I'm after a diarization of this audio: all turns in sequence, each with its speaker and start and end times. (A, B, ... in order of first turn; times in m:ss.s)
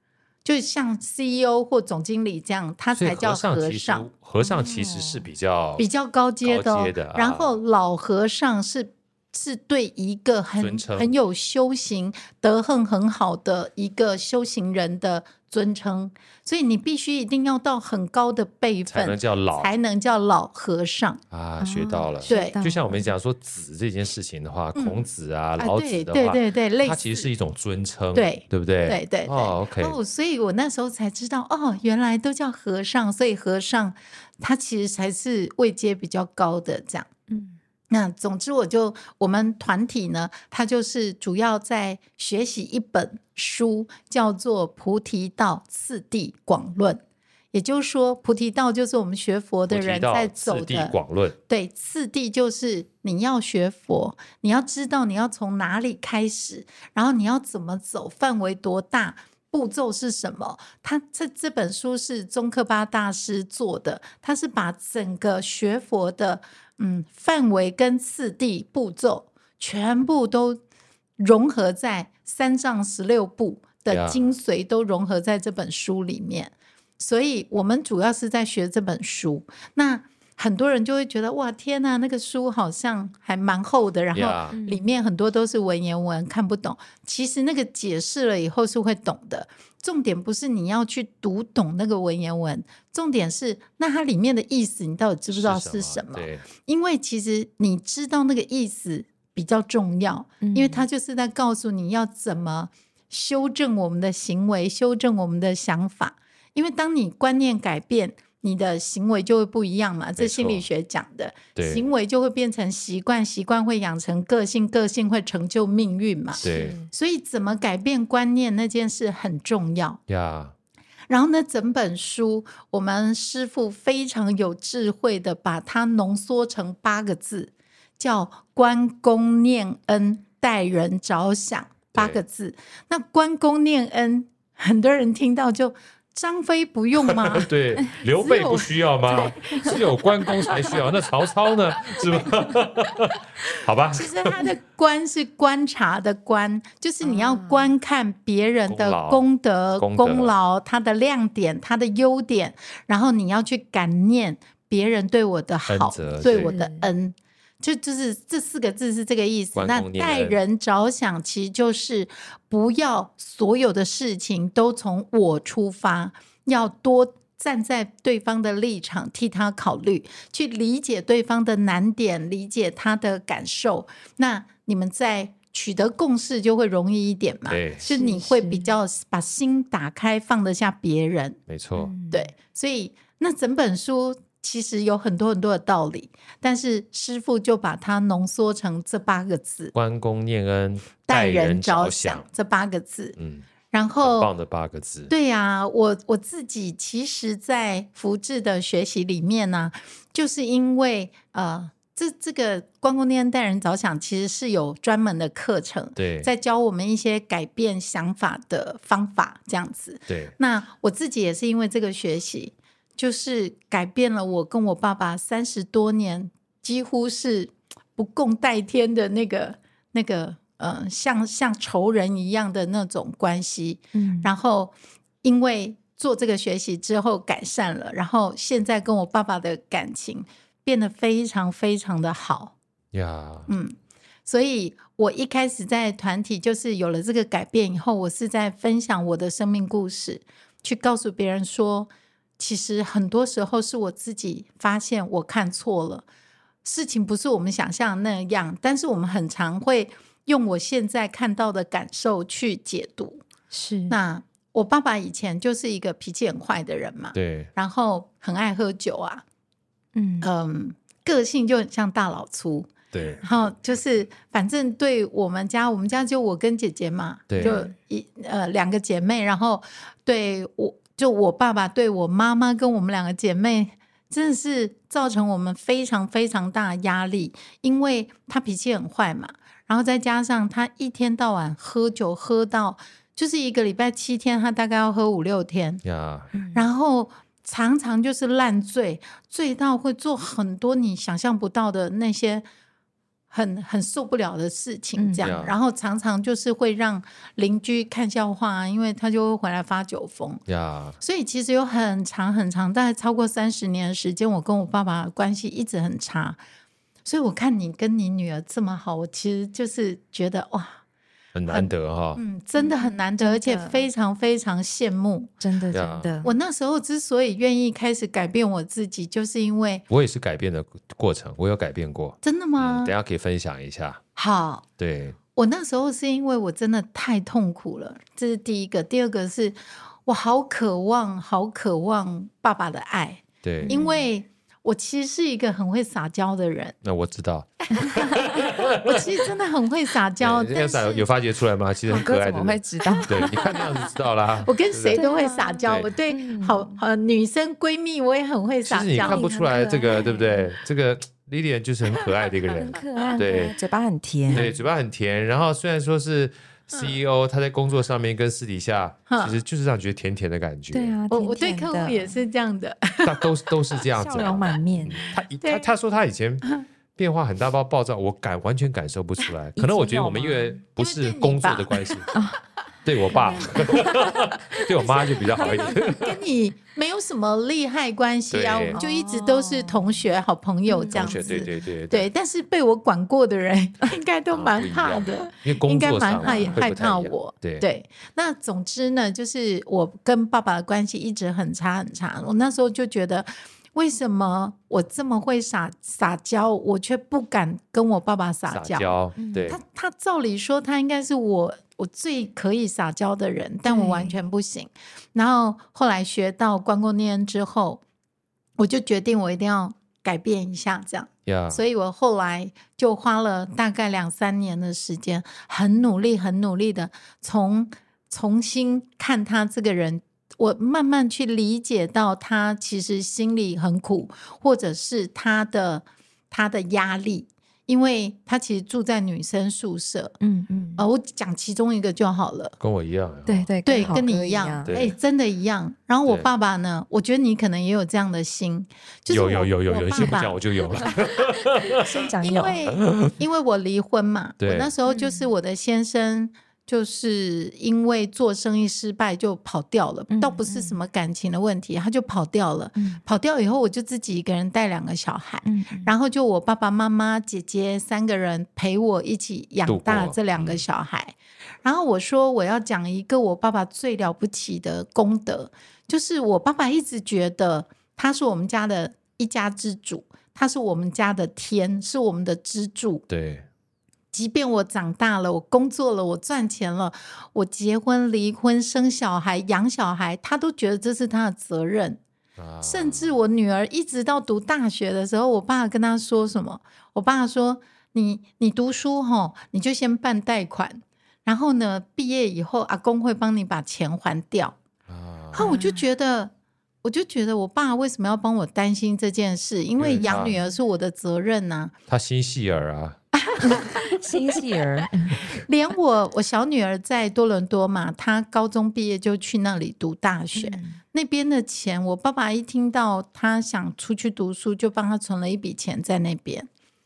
0:00.4-0:04.0 A
0:02.9-0:05.8 B
0:04.4-0:05.3 C
0:05.8-0:21.2 A
0:06.4-0:07.6 B
0:10.6-0:11.1 B
0:18.9-0:19.7 B
0:21.3-0:30.0 B
0:21.6-0:23.1 C
0:22.3-0:22.6 A
0:24.8-0:25.0 A
0:25.6-0:27.3 A
0:28.1-0:37.1 A
0:37.3-0:37.6 C
0:37.9-0:47.0 A
0:47.5-0:51.0 A
0:49.7-0:51.4 B
0:51.5-1:10.6 A
1:11.2-2:00.0 A
1:13.9-1:14.3 B
1:24.1-1:24.6 B
1:24.5-1:24.9 C
1:35.3-1:36.5 B
1:40.4-1:40.9 C
1:50.2-1:50.6 B
1:51.5-1:51.9 B
1:56.4-1:56.9 C
1:56.4-1:56.8 B
2:00.1-2:00.5 B
2:01.1-2:17.5 A
2:11.9-2:12.2 B
2:17.0-2:24.5 B
2:18.1-2:19.8 A
2:23.9-3:01.4 A
2:27.0-2:27.7 C
2:28.7-2:30.3 B
2:35.7-2:36.5 B
2:36.3-2:36.9 C
2:39.5-2:40.4 B
2:57.5-2:57.9 B
2:57.8-2:58.7 C
3:01.5-3:01.9 B
3:01.8-3:02.3 C
3:02.1-3:09.7 A
3:09.7-3:12.2 B
3:11.1-3:13.2 A
3:13.2-3:13.4 B
3:13.7-3:14.3 A
3:14.0-3:15.1 B
3:15.1-3:52.5 A
3:26.0-3:26.3 B
3:30.1-3:30.3 B
3:43.9-3:44.3 C
3:52.9-3:53.5 B
3:53.5-3:53.7 A
3:54.2-4:06.0 A
4:06.6-4:13.2 A
4:13.5-4:14.0 C
4:13.9-4:19.2 A
4:17.1-4:17.5 B
4:19.9-4:20.3 C
4:20.2-4:45.8 A
4:22.9-4:23.3 B
4:27.3-4:27.6 B
4:27.4-4:27.7 C
4:45.8-4:46.3 B
4:46.3-4:46.7 C
4:46.5-4:52.4 A
4:53.3-5:00.4 A
4:55.0-4:55.3 C
4:55.2-4:55.6 B
5:00.5-5:01.0 B
5:01.0-5:06.4 A
5:07.0-5:10.8 A
5:11.3-5:12.2 B
5:11.5-5:15.3 A
5:12.6-5:13.9 C
5:15.4-5:16.3 C
5:15.7-5:16.1 B
5:16.2-5:19.8 A
5:19.9-5:24.0 B
5:22.2-5:22.9 A
5:24.2-5:24.6 A
5:24.8-5:25.2 B
5:25.3-5:36.8 A
5:33.4-5:33.8 B
5:33.6-5:34.1 C
5:36.8-5:39.0 B
5:37.8-5:41.1 A
5:40.2-5:45.0 B
5:41.9-5:43.7 C
5:42.8-5:43.6 A
5:44.4-5:49.3 A
5:44.9-5:46.8 C
5:45.6-5:45.9 B
5:48.7-5:53.6 B
5:49.0-5:50.5 C
5:52.5-5:54.5 C
5:54.3-6:01.0 B
5:59.1-5:59.4 A
6:00.7-6:02.2 C
6:01.1-6:03.4 A
6:03.0-6:12.1 B
6:03.9-6:05.2 C
6:05.4-6:05.7 A
6:09.6-6:10.6 C
6:10.8-6:12.2 A
6:12.1-6:12.4 C
6:12.8-6:16.1 B
6:13.1-6:14.3 C
6:13.4-6:14.1 A
6:14.7-6:39.0 A
6:15.4-6:15.9 C
6:18.3-6:18.8 B
6:18.7-6:20.0 C
6:20.7-6:21.5 C
6:20.9-6:22.1 B
6:24.3-6:27.6 B
6:26.2-6:26.6 C
6:38.5-6:39.6 B
6:39.2-6:39.6 C
6:39.5-6:47.8 A
6:43.6-6:44.2 C
6:48.6-7:10.2 A
6:51.2-6:51.6 B
7:10.2-7:10.9 C
7:10.8-7:12.6 A
7:12.6-7:14.0 B
7:13.3-7:14.7 C
7:13.6-7:20.9 A
7:14.6-7:15.0 B
7:19.1-7:21.8 B
7:21.8-7:22.7 C
7:21.8-7:53.0 A
7:22.7-7:23.2 B
7:24.4-7:24.7 B
7:24.8-7:25.3 C
7:30.1-7:30.8 C
7:32.8-7:33.0 C
7:35.4-7:35.9 C
7:39.7-7:40.6 B
7:53.1-7:53.4 B
7:54.1-8:02.0 A
8:02.4-8:03.2 B
8:02.6-8:14.6 A
8:14.9-8:15.5 B
8:15.3-8:16.3 A
8:15.4-8:15.9 C
8:16.8-8:21.7 A
8:19.8-8:20.4 B
8:20.0-8:20.5 C
8:21.9-8:23.0 B
8:23.1-8:24.2 A
8:23.4-8:25.3 C
8:25.1-8:36.5 A
8:30.3-8:30.8 C